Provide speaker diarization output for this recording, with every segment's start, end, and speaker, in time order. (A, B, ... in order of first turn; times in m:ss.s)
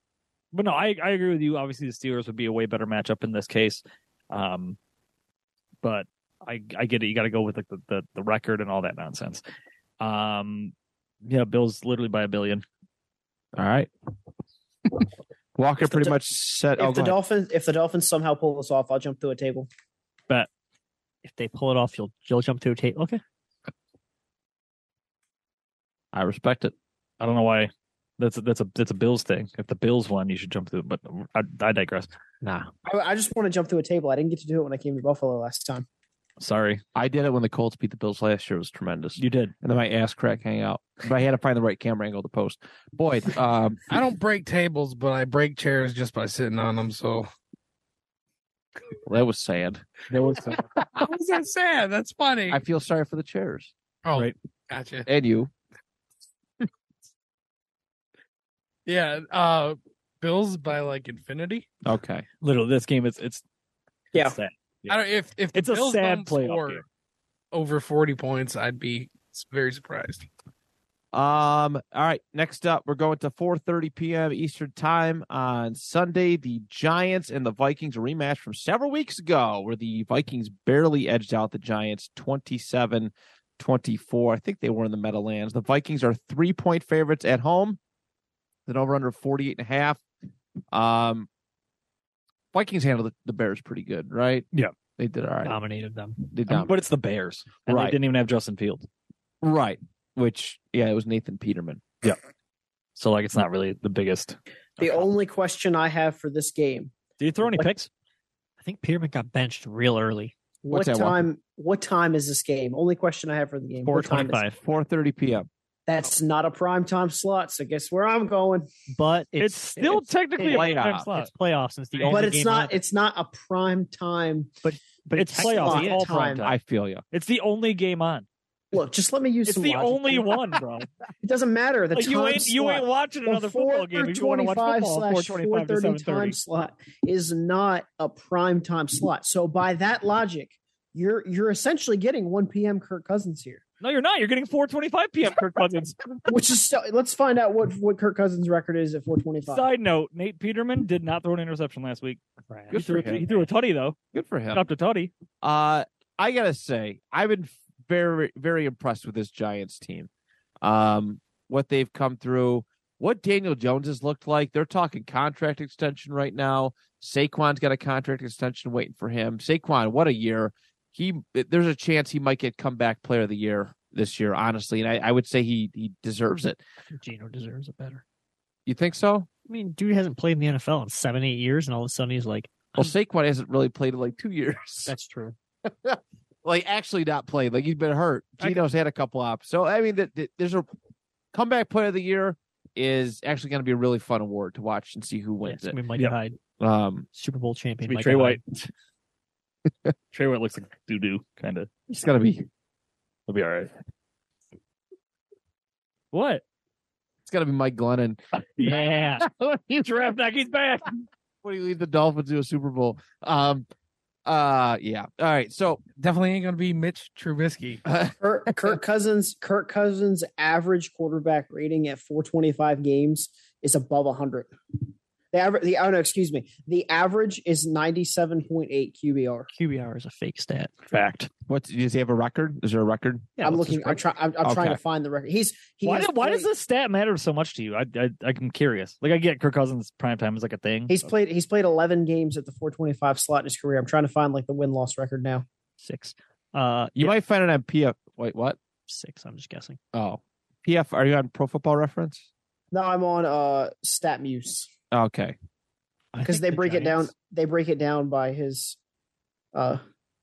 0:00.5-0:04.8 A
0:05.8-0:09.4 A
0:10.0-0:12.6 A
0:13.6-0:13.9 B
0:15.6-0:17.2 B
0:15.9-0:16.2 C
0:16.8-0:19.7 C
0:21.2-0:23.2 D
0:26.1-0:26.7 B
0:27.2-0:32.1 A
0:32.4-0:32.7 D
0:32.8-0:35.9 C
0:36.4-0:36.8 A
0:37.0-0:43.8 B
0:39.2-0:39.5 A
0:43.9-0:47.3 E
0:49.1-0:50.9 B
0:50.3-0:52.6 E
0:52.5-0:53.7 B
0:54.0-0:55.1 E
0:55.1-0:55.5 B
0:58.9-1:01.7 E
1:01.8-1:02.3 B
1:02.4-1:03.4 A
1:04.2-1:05.0 A
1:04.9-1:06.8 E
1:05.5-1:06.8 A
1:07.5-1:10.3 E
1:11.1-1:27.8 B
1:28.7-1:30.0 B
1:30.7-1:31.3 B
1:32.5-1:34.5 B
1:35.0-1:35.6 B
1:35.4-1:36.2 D
1:36.3-1:36.7 B
1:36.5-1:38.9 A
1:37.7-1:38.0 B
1:39.4-1:41.9 B
1:43.0-1:45.1 A
1:44.8-1:47.7 C
1:47.2-1:47.9 A
1:48.6-1:50.3 D
1:50.7-1:51.2 B
1:50.7-1:54.4 C
1:53.8-1:54.6 D
1:54.6-1:55.5 B
1:55.9-1:58.7 C
1:58.9-2:02.8 D
1:59.4-2:01.3 A
2:00.4-2:01.1 B
2:02.1-2:04.6 C
2:04.6-2:06.1 D
2:05.2-2:06.6 A
2:05.4-2:06.4 C
2:06.4-2:07.0 B
2:07.1-2:08.3 A
2:08.7-2:10.6 C
2:09.4-2:10.9 A
2:11.2-2:23.6 C
2:11.9-2:16.4 A
2:23.8-2:26.3 A
2:26.3-2:29.6 C
2:29.4-2:32.2 A
2:32.5-2:33.5 D
2:32.7-2:33.2 B
2:32.7-2:34.0 A
2:34.1-2:34.6 B
2:34.5-2:35.1 A
2:35.4-2:40.1 B
2:40.6-2:56.6 B
2:56.9-2:58.0 D
2:58.7-2:59.3 B
2:59.5-3:02.9 D
3:02.8-3:04.9 B
3:04.9-3:05.4 D
3:05.6-3:10.7 B
3:11.3-3:15.8 B
3:15.4-3:16.4 D
3:16.6-3:17.1 B
3:17.1-3:18.4 D
3:17.8-3:18.7 A
3:20.1-3:21.7 A
3:21.9-3:22.5 B
3:23.3-3:23.7 A
3:26.1-3:26.4 A
3:27.3-3:29.8 B
3:28.6-3:31.0 A
3:31.4-3:33.7 B
3:34.3-3:35.8 B
3:35.9-3:37.8 E
3:37.9-3:38.1 B
3:38.2-3:44.5 C
3:45.3-3:49.5 C
3:49.5-3:50.8 D
3:50.9-3:51.3 A
3:51.5-3:53.4 B
3:53.4-3:54.0 D
3:53.4-3:56.5 C
3:54.4-3:54.8 B
3:55.8-4:01.1 A
4:00.9-4:05.4 C
4:05.8-4:07.2 D
4:07.0-4:08.6 B
4:08.9-4:09.8 D
4:09.9-4:12.3 B
4:12.7-4:14.7 C
4:14.9-4:15.4 B
4:16.1-4:17.1 D
4:16.2-4:18.8 C
4:19.5-4:19.8 C